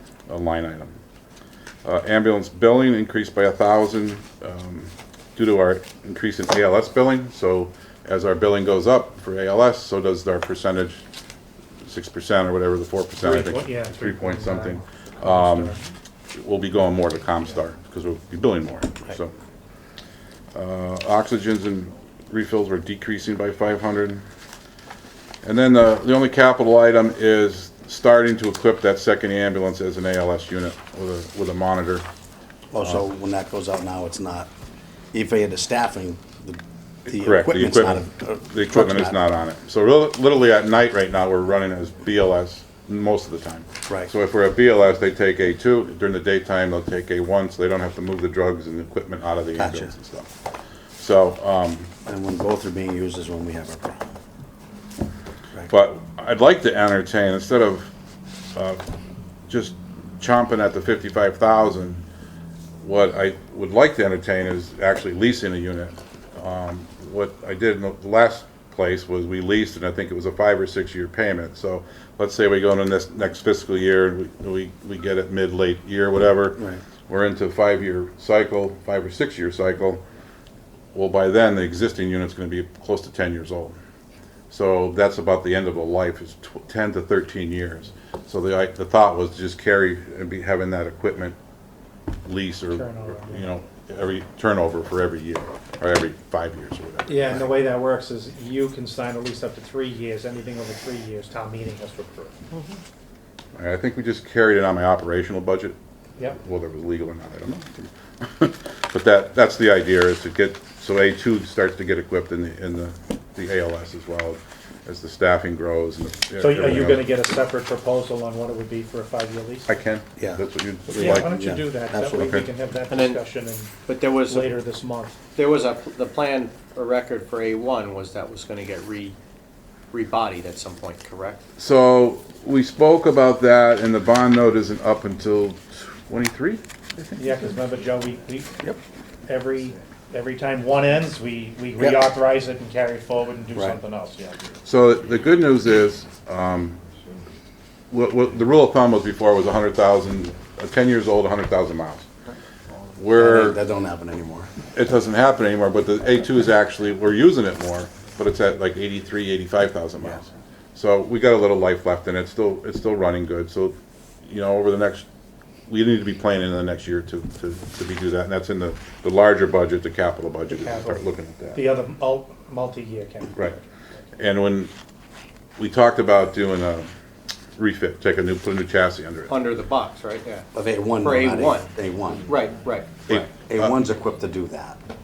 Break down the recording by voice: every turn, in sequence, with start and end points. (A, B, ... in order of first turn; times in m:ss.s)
0:00.3-0:01.0 A
0:01.8-0:11.0 A
0:11.8-0:15.7 A
0:13.2-0:15.8 B
0:16.3-0:19.3 A
0:20.5-0:24.2 A
0:25.4-0:32.0 A
0:32.7-0:34.5 C
0:35.1-0:39.2 C
0:37.1-0:50.3 A
0:49.6-0:49.9 C
0:51.0-0:51.9 A
0:52.0-0:54.0 C
0:55.7-0:57.9 A
0:58.5-0:58.9 A
0:59.5-1:02.0 A
1:02.8-1:20.0 A
1:20.9-1:23.8 A
1:24.5-1:31.4 A
1:32.2-1:37.5 A
1:32.7-1:33.5 B
1:37.1-1:42.4 B
1:43.5-1:45.8 A
1:46.3-1:57.1 A
1:56.4-1:59.7 B
1:59.7-2:01.5 A
2:00.2-2:00.4 C
2:00.9-2:05.2 B
2:00.9-2:02.4 C
2:02.1-2:02.5 A
2:02.9-2:03.2 D
2:03.8-2:04.6 D
2:05.3-2:09.2 D
2:09.9-2:11.4 D
2:11.6-2:17.4 A
2:17.2-2:18.6 B
2:19.3-2:24.4 B
2:21.8-2:22.1 C
2:24.6-2:26.8 A
2:27.9-2:32.1 A
2:33.0-2:33.6 A
2:33.1-2:34.5 C
2:34.7-2:45.1 A
2:45.7-2:51.6 A
2:50.5-2:53.5 B
2:54.2-2:54.7 A
2:55.6-2:56.9 A
2:57.6-2:59.4 A
2:59.3-3:00.5 D
3:00.5-3:02.3 C
3:01.0-3:01.7 D
3:02.3-3:03.2 D
3:03.1-3:03.7 A
3:03.5-3:04.8 C